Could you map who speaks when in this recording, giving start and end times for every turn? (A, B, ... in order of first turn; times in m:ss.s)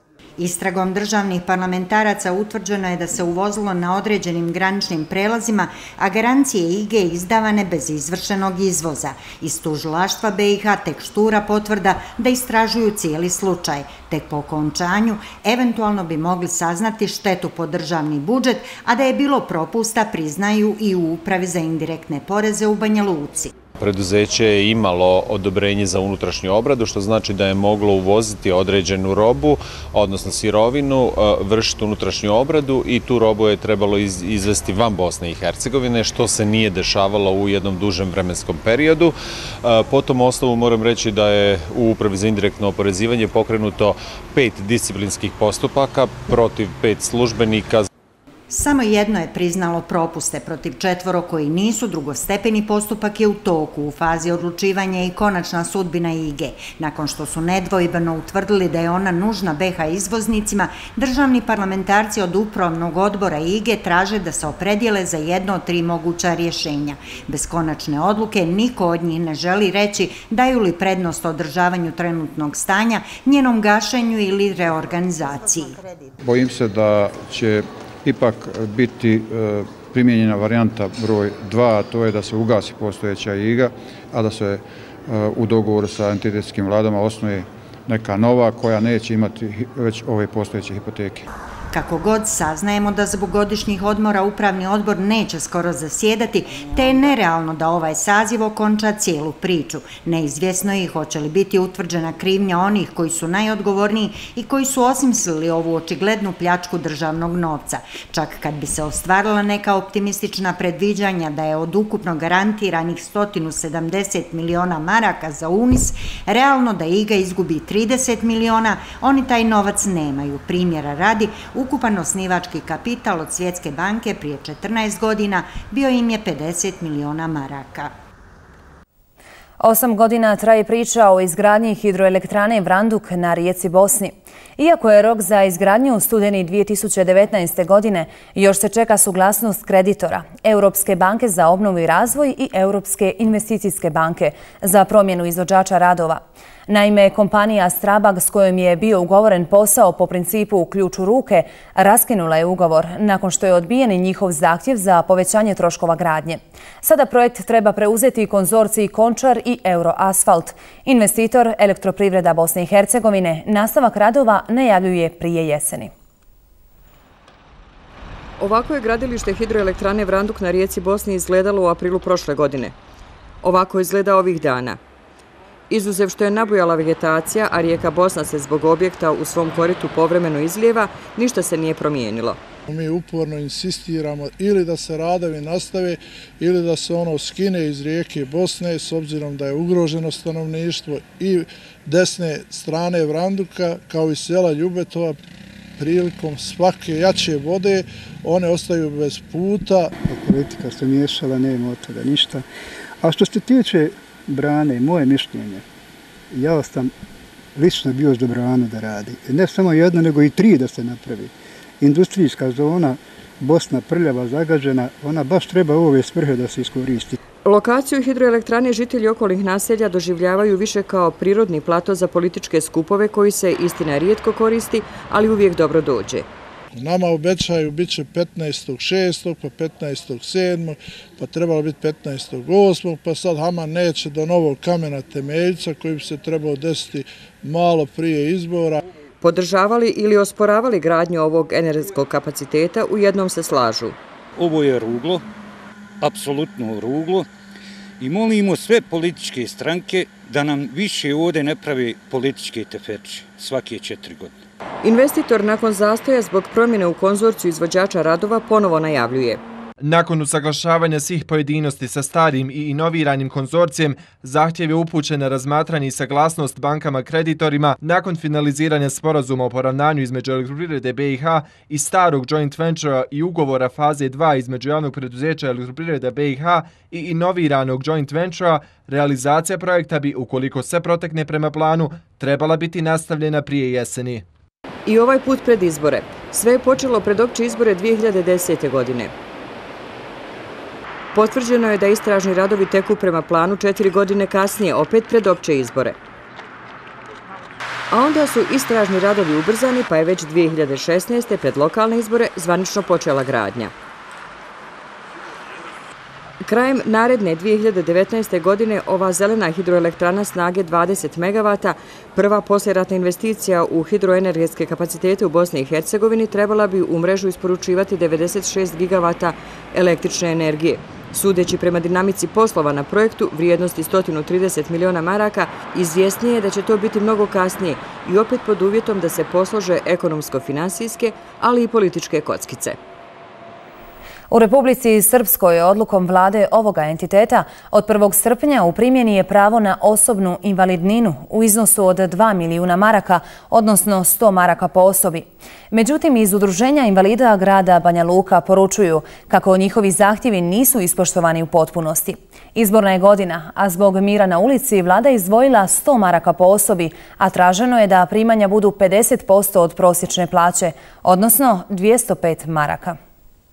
0:00.4-0:23.5 A
0:23.8-0:47.9 B
0:48.5-1:15.8 A
1:16.2-1:31.2 C
1:31.7-2:07.9 A
2:09.6-2:45.9 D
2:48.4-2:52.7 E
2:53.4-2:54.8 E
2:55.7-3:02.4 E
3:02.7-3:15.2 F
3:15.8-3:19.9 F
3:20.0-3:22.4 G
3:23.0-3:25.6 G
3:26.3-3:26.9 G
3:27.5-3:37.2 G
3:37.4-3:46.2 E
3:46.7-3:58.8 F
3:59.2-4:04.0 E
4:04.4-4:05.2 H
4:06.0-4:07.2 H
4:08.0-4:14.3 H
4:14.8-4:19.4 E
4:19.8-4:44.2 I
4:44.8-4:49.1 E
4:51.1-4:56.0 E
4:57.9-5:03.7 E
5:06.4-5:32.8 E
5:34.3-6:03.0 D